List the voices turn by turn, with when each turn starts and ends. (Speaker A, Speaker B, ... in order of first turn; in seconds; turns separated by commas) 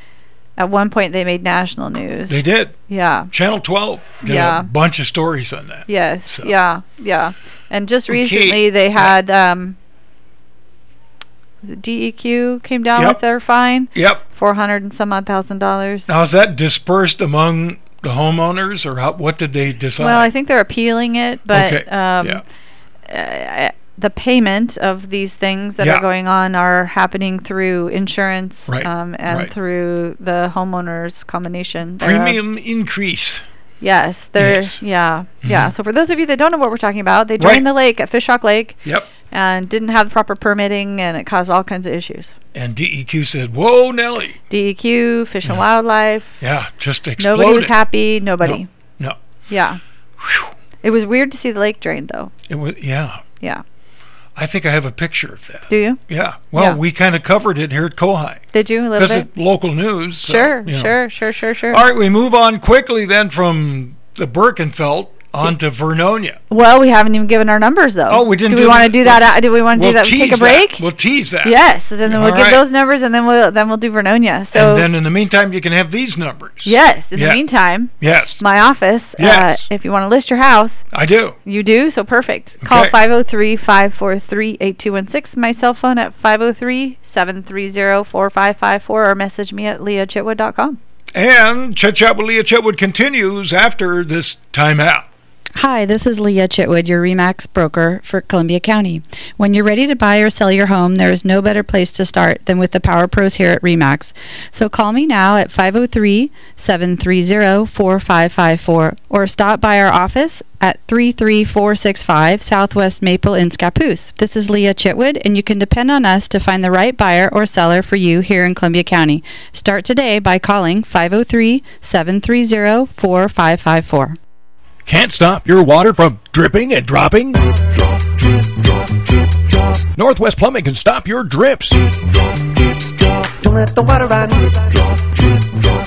Speaker A: 0.6-3.3, Speaker B: 2.3-2.8, Speaker B: 3.3-6.5, Speaker A: 4.2-4.7, Speaker A: 5.9-9.8, Speaker B: 8.1-9.1, Speaker A: 11.6-16.1, Speaker B: 13.9-14.2, Speaker B: 16.1-20.3, Speaker A: 20.0-22.4, Speaker B: 21.5-22.4, Speaker A: 23.1-32.4, Speaker B: 28.7-29.5, Speaker B: 32.0-33.4, Speaker A: 33.8-42.3, Speaker B: 34.4-34.8, Speaker B: 35.4-35.7, Speaker B: 37.4-37.6, Speaker B: 38.9-39.1, Speaker B: 42.5-44.4, Speaker A: 44.5-46.4, Speaker B: 46.4-47.7, Speaker A: 47.2-48.7, Speaker B: 48.4-49.2, Speaker A: 49.5-49.8, Speaker B: 50.2-50.5, Speaker A: 50.8-52.3, Speaker B: 52.5-53.2, Speaker B: 54.4-58.4, Speaker A: 55.7-56.0, Speaker A: 56.5-56.8, Speaker A: 58.5-59.3, Speaker B: 59.0-61.0, Speaker A: 60.2-61.8, Speaker B: 61.7-66.4, Speaker A: 66.5-70.8, Speaker B: 68.1-72.6, Speaker A: 71.4-74.9, Speaker B: 74.5-77.4, Speaker A: 76.7-80.8, Speaker B: 78.0-78.4, Speaker B: 79.2-79.7, Speaker B: 80.9-81.4, Speaker A: 81.5-90.8, Speaker B: 82.6-83.0, Speaker B: 91.2-95.1, Speaker C: 95.6-124.2, Speaker D: 124.9-127.4, Speaker D: 130.0-131.8, Speaker E: 133.2-135.7